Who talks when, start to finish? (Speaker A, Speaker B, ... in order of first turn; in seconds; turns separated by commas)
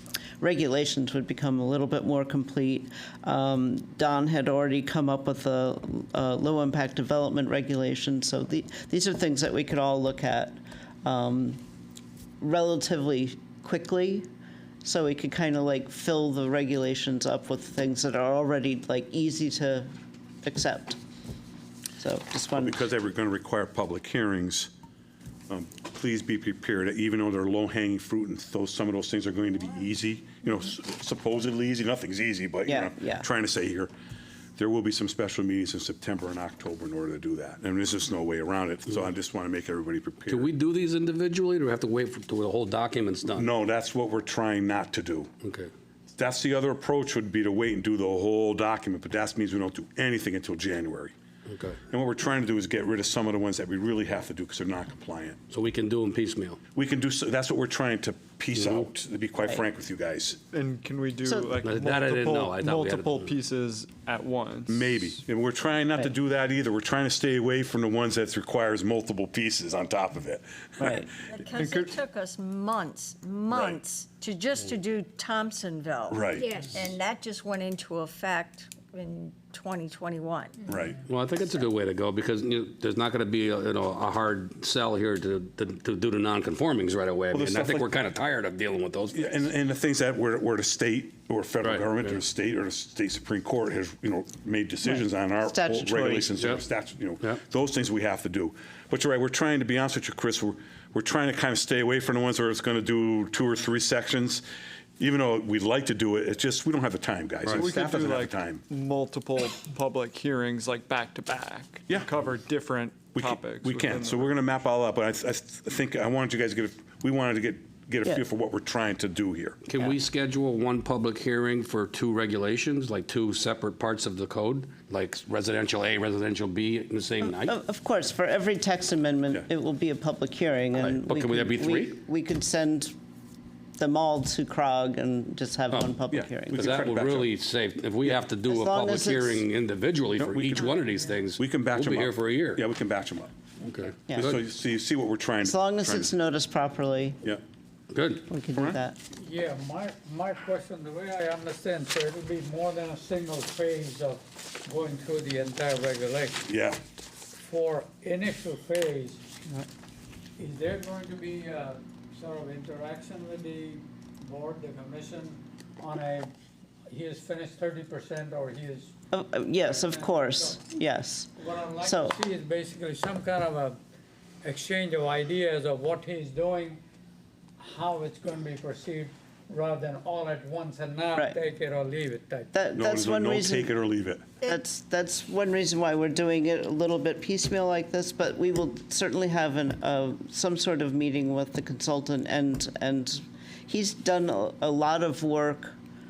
Speaker A: 0.4-11.6, Speaker A: 12.4-14.3, Speaker A: 14.8-19.9, Speaker A: 20.4-21.0, Speaker A: 22.0-22.8, Speaker B: 22.5-24.7, Speaker B: 25.5-33.9, Speaker A: 32.7-33.2, Speaker B: 34.6-40.5, Speaker C: 40.3-43.5, Speaker B: 43.3-45.3, Speaker C: 45.4-45.7, Speaker B: 46.1-51.1, Speaker C: 51.5-51.8, Speaker B: 51.9-55.4, Speaker C: 55.5-56.6, Speaker B: 56.7-60.4, Speaker C: 58.5-58.9, Speaker D: 60.5-65.2, Speaker A: 61.2-61.5, Speaker C: 61.6-63.3, Speaker B: 64.7-71.1, Speaker A: 70.8-71.1, Speaker E: 71.3-80.6, Speaker B: 73.5-73.8, Speaker B: 76.1-76.5, Speaker B: 80.7-81.0, Speaker C: 81.1-89.2, Speaker B: 87.3-87.9, Speaker B: 89.1-104.4, Speaker A: 94.8-96.4, Speaker B: 105.0-108.6, Speaker D: 107.5-114.3, Speaker B: 113.1-119.6, Speaker C: 119.6-127.5, Speaker A: 127.3-132.9, Speaker C: 130.8-131.9, Speaker A: 133.8-136.7, Speaker C: 135.7-136.0, Speaker B: 136.1-137.3, Speaker C: 136.6-142.6, Speaker A: 138.5-139.4, Speaker B: 140.2-140.8, Speaker B: 141.4-143.3, Speaker C: 143.6-144.4, Speaker B: 144.0-146.1, Speaker A: 145.4-147.2, Speaker C: 147.9-148.2, Speaker A: 148.3-149.0, Speaker F: 149.1-156.4, Speaker B: 156.4-156.8, Speaker F: 157.4-159.6, Speaker F: 160.4-166.3, Speaker F: 166.9-168.9, Speaker A: 169.1-172.2, Speaker F: 169.6-170.6, Speaker F: 171.3-173.8, Speaker F: 174.4-176.8, Speaker F: 177.6-182.5, Speaker A: 181.1-181.4, Speaker A: 182.5-183.7, Speaker B: 182.8-184.2, Speaker A: 184.4-195.8